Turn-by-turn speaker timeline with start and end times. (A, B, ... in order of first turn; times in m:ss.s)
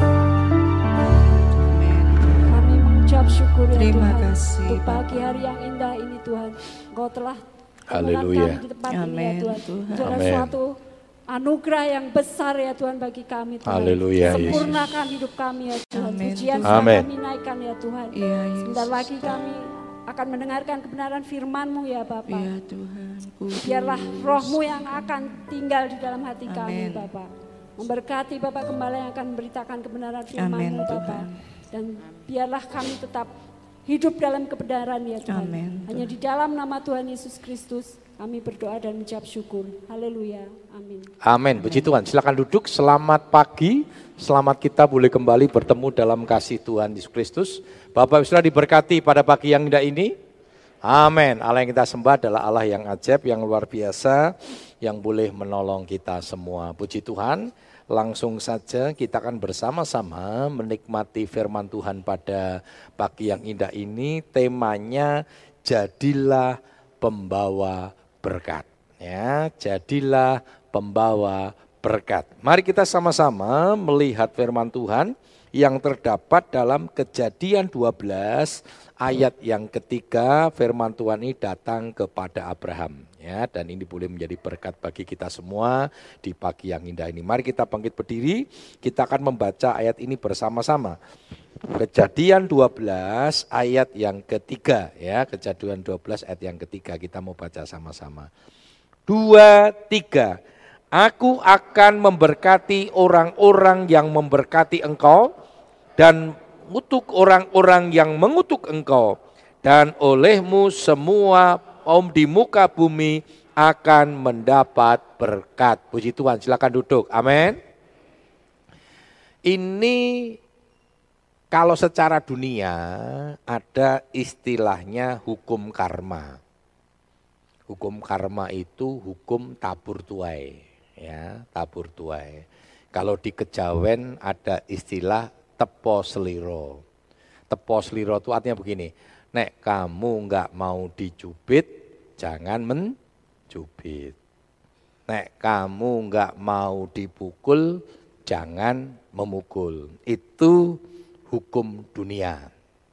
0:01.6-0:02.6 A
0:02.5-0:10.7 B
0:03.7-0:05.4 A
0:07.9-0:08.6 C
0:08.9-0:10.2 A
0:10.0-0:10.5 C
0:11.3-0:22.5 B
0:13.6-0:14.8 C
0:14.2-0:15.0 A
0:15.9-0:16.9 A
0:16.6-0:17.1 C
0:18.1-0:19.4 A
0:22.3-0:25.4 A
0:23.6-0:33.3 B
0:26.5-0:27.1 A
0:30.4-0:31.4 A
0:33.9-0:41.1 B
0:35.3-0:36.1 A
0:41.2-0:50.1 C
0:41.6-0:41.9 A
0:50.8-1:05.1 C
1:05.7-1:31.0 C
1:31.7-1:38.3 C
1:39.1-1:40.4 C
1:41.0-1:45.3 C
1:46.0-1:57.6 C
1:59.5-2:00.4 C
2:01.5-2:06.4 C
2:07.7-2:12.4 C
2:13.0-2:16.8 C
2:17.5-2:22.9 C
2:23.5-2:24.2 C
2:25.1-2:30.7 C
2:31.3-2:32.5 C